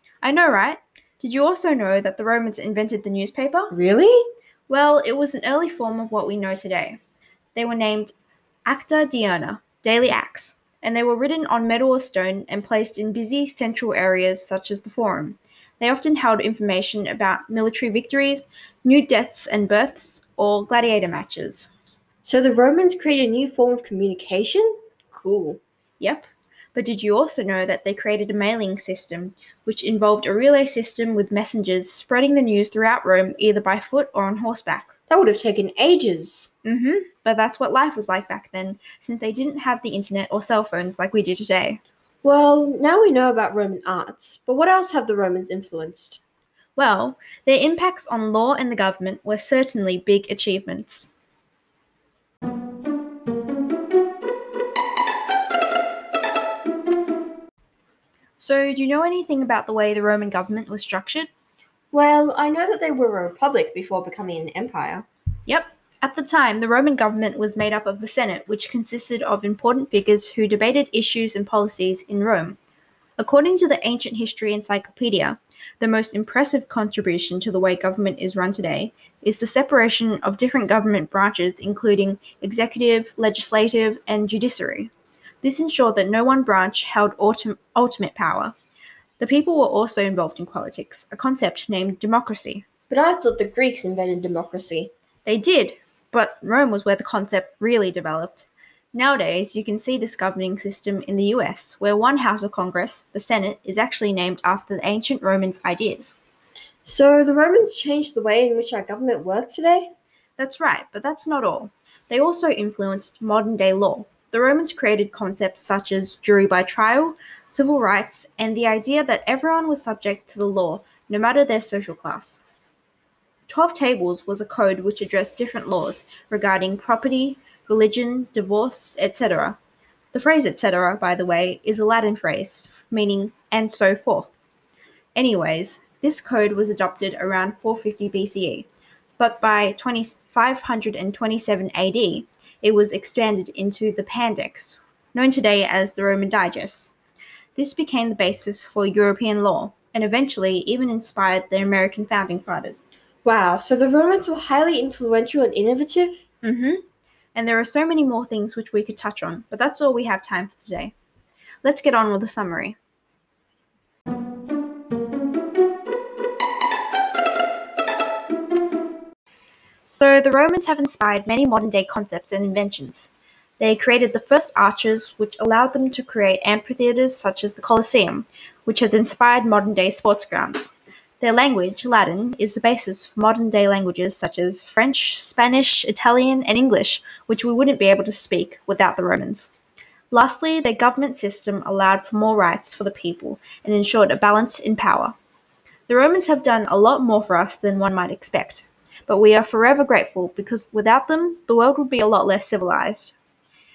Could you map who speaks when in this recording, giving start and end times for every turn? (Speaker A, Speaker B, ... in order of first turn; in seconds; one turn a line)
Speaker A: 0.2-3.7
Speaker B: 3.7-4.2
Speaker A: 4.7-7.0
Speaker A: 7.5-8.1
Speaker A: 8.7-21.7
Speaker B: 22.2-25.6
Speaker A: 26.0-34.9
Speaker B: 35.1-36.5
Speaker A: 36.6-41.8
Speaker B: 42.2-46.2
Speaker A: 46.8-51.1
Speaker A: 58.4-61.3
Speaker B: 61.9-65.1
Speaker A: 65.5-72.6
Speaker A: 73.2-84.9
Speaker A: 85.4-88.5
Speaker A: 89.2-92.7
Speaker B: 92.9-94.9
Speaker A: 95.2-106.1
Speaker B: 106.8-109.9
Speaker A: 110.4-122.4
Speaker A: 123.5-129.6
Speaker A: 130.1-134.3
Speaker A: 135.1-138.7
Speaker A: 139.2-146.9
Speaker A: 147.6-152.8
Speaker B: 153.2-156.2
Speaker A: 156.4-156.8
Speaker A: 157.3-160.9
Speaker A: 161.6-162.8
Speaker A: 169.9-189.5
Speaker A: 190.1-195.2
Speaker A: 195.9-203.2